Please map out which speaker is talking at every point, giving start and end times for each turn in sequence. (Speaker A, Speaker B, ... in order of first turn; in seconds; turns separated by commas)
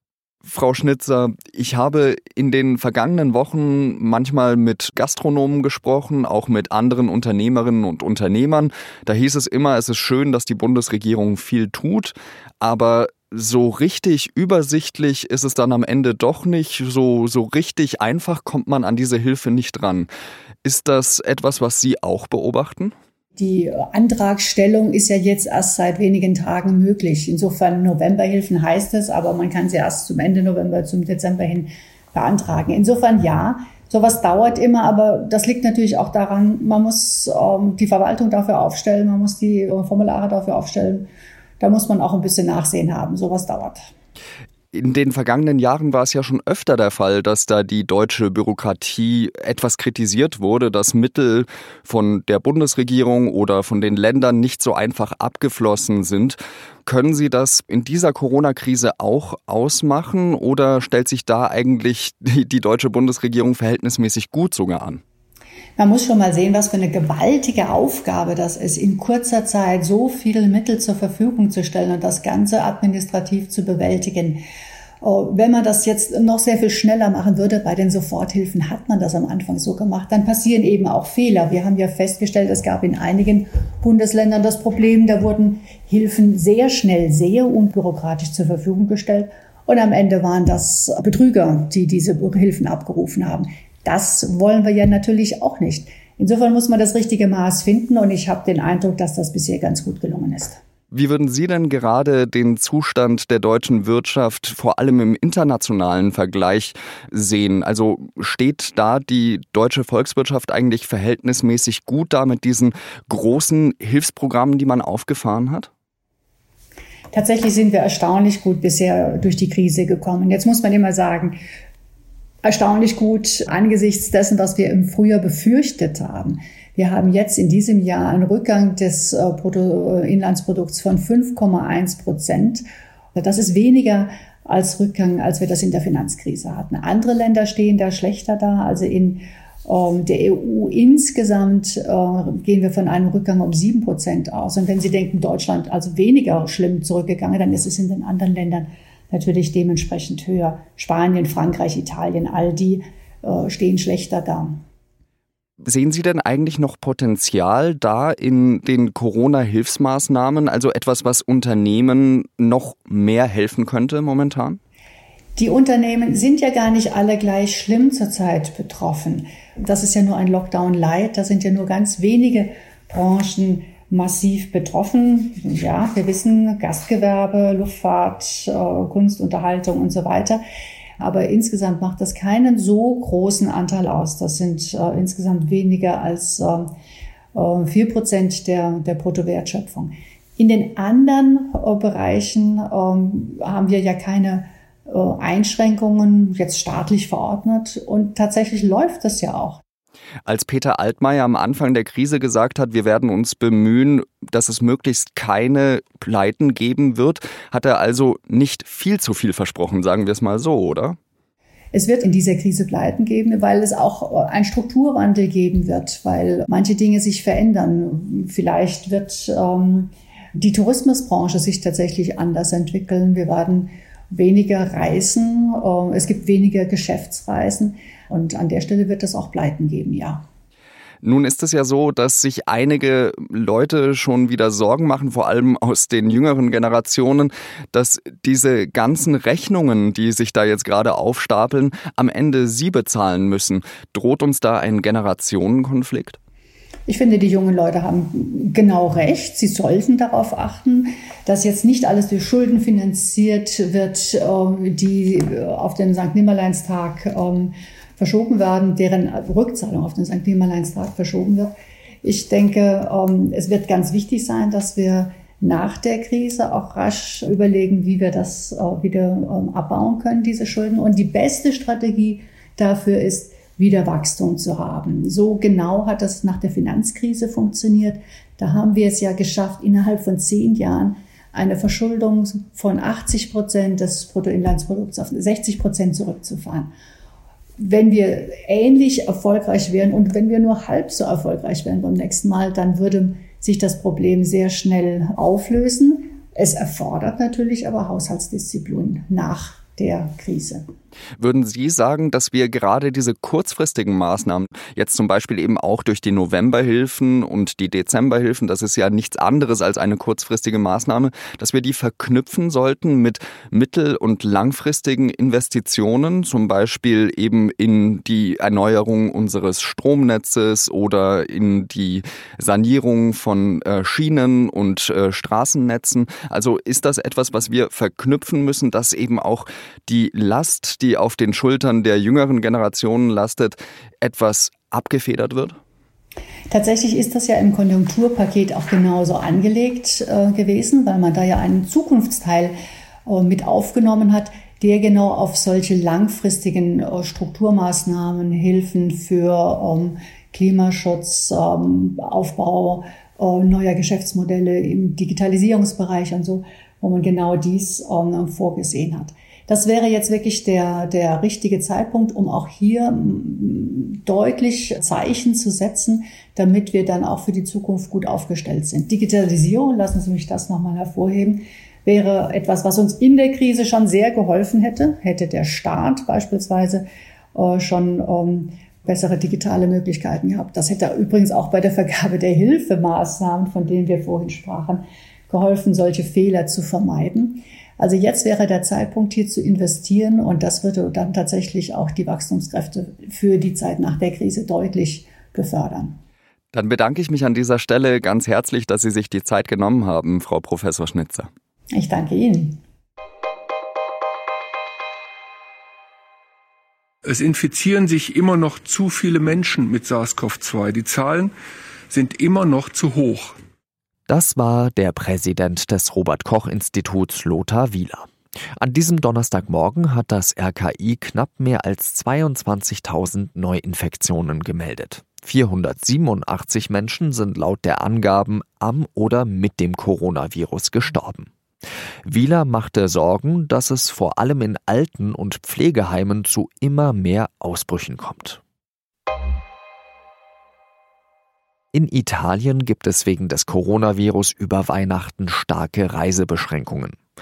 Speaker A: 0.5-20.1, Speaker A: 20.6-22.9, Speaker B: 23.4-41.1, Speaker B: 41.6-43.9, Speaker A: 44.7-65.0, Speaker B: 65.8-74.4, Speaker B: 75.0-100.6, Speaker A: 100.9-115.7, Speaker B: 117.1-121.3, Speaker B: 122.4-132.6, Speaker B: 133.1-154.6, Speaker A: 155.6-164.6, Speaker B: 165.3-180.4, Speaker B: 181.0-186.7, Speaker B: 187.3-199.6, Speaker A: 200.2-211.0, Speaker B: 211.7-230.2, Speaker A: 231.0-246.2, Speaker B: 246.8-261.5, Speaker B: 262.0-286.7, Speaker B: 287.6-300.6, Speaker A: 301.2-335.6, Speaker B: 336.5-342.5, Speaker B: 343.1-376.8, Speaker B: 377.3-395.9, Speaker A: 396.5-401.3, Speaker B: 401.7-402.6, Speaker C: 407.0-411.3, Speaker C: 411.9-413.4, Speaker D: 414.1-431.3, Speaker D: 432.1-438.4, Speaker D: 441.7-447.0